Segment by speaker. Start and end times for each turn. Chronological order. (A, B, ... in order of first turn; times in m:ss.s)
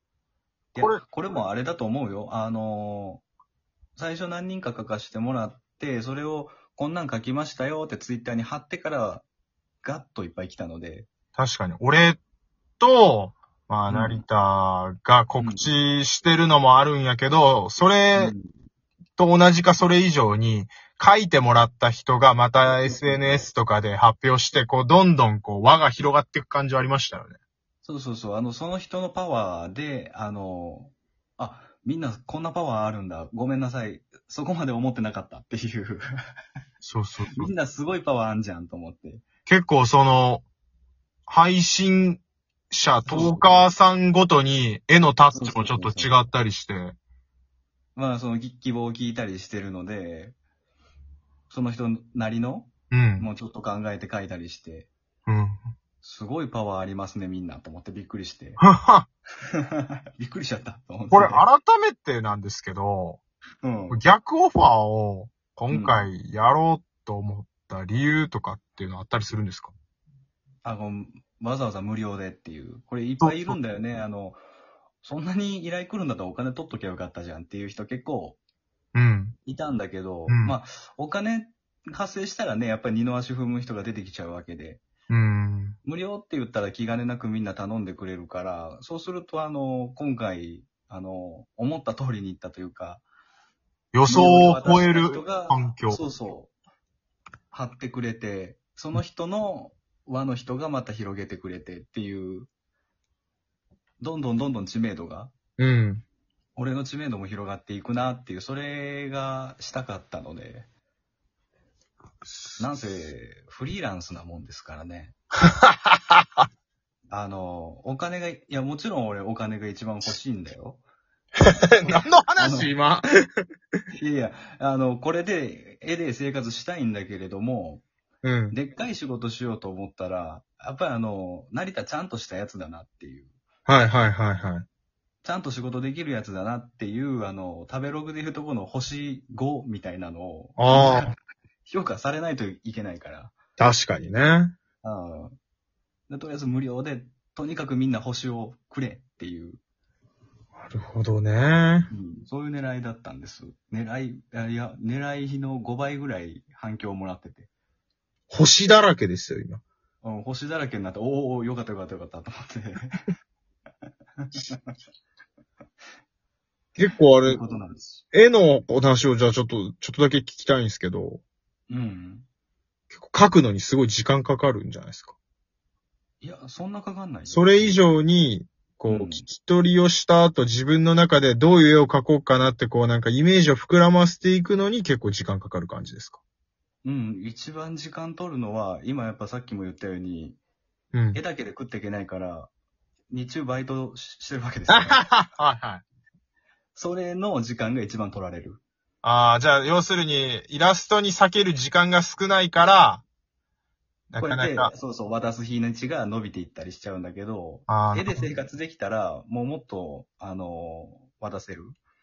0:00.7-0:03.2 A
0:04.0-0:09.2 A
0:09.8-0:11.1 A
0:11.4-0:12.2 B
0:12.8-0:18.3 B
0:13.9-0:14.2 A
0:15.4-0:15.8 A
0:18.2-0:18.4 A
0:19.2-0:27.4 B
0:22.8-0:23.4 A
0:27.8-0:36.1 A
0:36.8-0:37.5 B
0:37.3-0:39.2 A
0:39.5-0:40.4 B
0:41.3-0:47.0 B
0:43.1-0:43.6 A
0:45.3-0:46.2 A
0:48.0-0:50.4 A
0:51.5-0:54.9 A
0:52.9-0:53.3 B
0:55.3-0:55.6 B
0:56.0-0:58.6 A
0:58.6-0:59.1 B
0:59.6-1:01.4 A
1:01.1-1:03.2 B
1:03.6-1:04.0 A
1:03.9-1:09.7 B
1:05.7-1:06.0 A
1:10.6-1:14.4 A
1:13.2-1:13.6 B
1:15.0-1:18.4 A
1:18.9-1:19.3 B
1:19.4-1:24.8 A
1:20.3-1:20.5 B
1:25.1-1:25.8 B
1:25.8-1:33.0 A
1:33.9-1:36.0 B
1:34.1-1:36.5 A
1:37.5-1:42.5 A
1:44.0-1:45.3 A
1:45.6-1:46.0 B
1:46.6-1:50.7 A
1:52.6-1:55.1 A
1:55.6-1:56.2 B
1:57.1-2:00.8 A
2:01.4-2:03.1 B
2:01.7-2:02.8 A
2:03.9-2:07.8 A
2:08.2-2:08.6 B
2:08.5-2:13.3 A
2:13.7-2:14.6 B
2:15.2-2:21.1 A
2:20.6-2:21.1 B
2:21.6-2:23.3 A
2:23.6-2:24.6 B
2:24.8-2:25.3 A
2:26.1-2:29.6 A
2:30.5-2:31.9 B
2:31.9-2:37.5 A
2:38.3-2:39.6 B
2:40.0-2:43.1 A
2:44.2-2:44.6 A
2:46.8-2:47.4 B
2:47.2-2:48.0 A
2:48.1-2:51.2 B
2:51.7-2:52.3 A
2:52.9-2:55.1 B
2:56.2-2:57.8 A
2:57.3-3:06.2 B
2:58.9-2:59.2 A
3:06.8-3:10.4 A
3:10.9-3:11.2 B
3:11.1-3:12.5 A
3:13.1-3:15.0 A
3:14.7-3:15.8 B
3:16.8-3:18.6 A
3:19.0-3:23.0 B
3:24.1-3:24.7 B
3:24.2-3:31.8 A
3:27.7-3:28.3 B